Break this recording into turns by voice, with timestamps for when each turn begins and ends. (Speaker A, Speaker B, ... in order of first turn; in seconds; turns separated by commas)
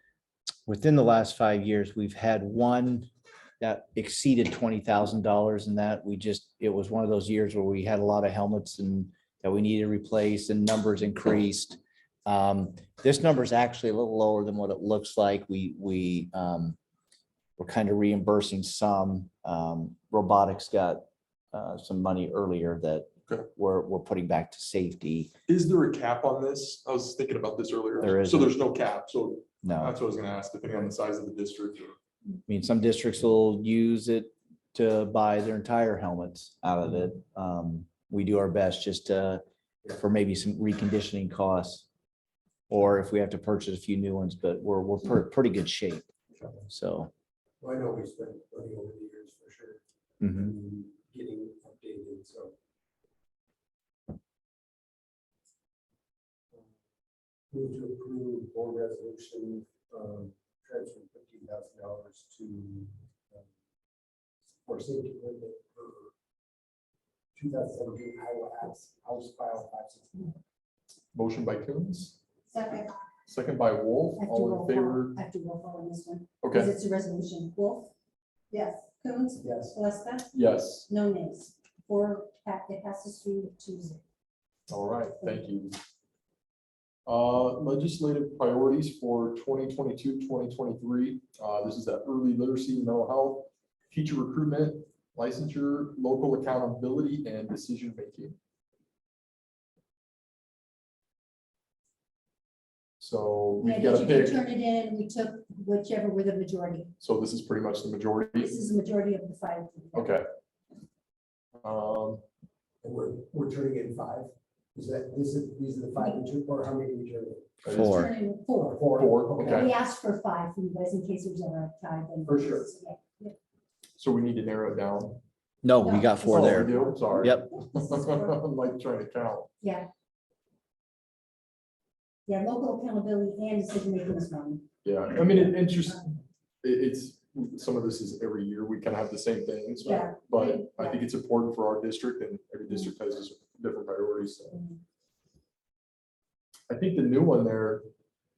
Speaker A: 0.7-16.8, Speaker A: 17.6-25.3, Speaker B: 25.5-32.0, Speaker A: 28.0-28.6, Speaker A: 29.6-29.9, Speaker A: 32.5-41.9, Speaker A: 42.7-46.0, Speaker A: 46.7-47.1, Speaker C: 47.6-49.8, Speaker A: 50.2-50.5, Speaker C: 50.3-52.5, Speaker C: 57.5-63.5, Speaker C: 64.7-66.1, Speaker C: 67.3-70.4, Speaker B: 71.1-72.2, Speaker D: 72.5-72.9, Speaker B: 73.3-75.2, Speaker D: 74.2-77.9, Speaker B: 76.4-76.7, Speaker D: 78.5-80.3, Speaker C: 79.4-79.8, Speaker B: 80.3-80.9, Speaker D: 80.9-84.0, Speaker B: 84.7-85.8, Speaker B: 87.1-98.4, Speaker B: 103.0-104.4, Speaker D: 103.6-106.9, Speaker B: 107.0-108.5, Speaker D: 108.4-110.2, Speaker B: 109.9-110.2, Speaker B: 111.6-112.2, Speaker C: 112.8-117.5, Speaker B: 117.6-118.0, Speaker A: 117.7-118.1, Speaker D: 117.7-118.8, Speaker C: 118.6-119.7, Speaker B: 118.9-119.7, Speaker D: 119.5-123.4, Speaker C: 122.2-122.7, Speaker B: 124.0-125.2, Speaker A: 125.6-127.5, Speaker D: 125.8-128.4, Speaker B: 126.3-129.5, Speaker D: 129.6-129.9, Speaker D: 132.3-134.6, Speaker B: 134.8-144.6, Speaker D: 135.2-135.5, Speaker D: 139.8-141.1, Speaker D: 144.5-144.8, Speaker B: 146.7-147.9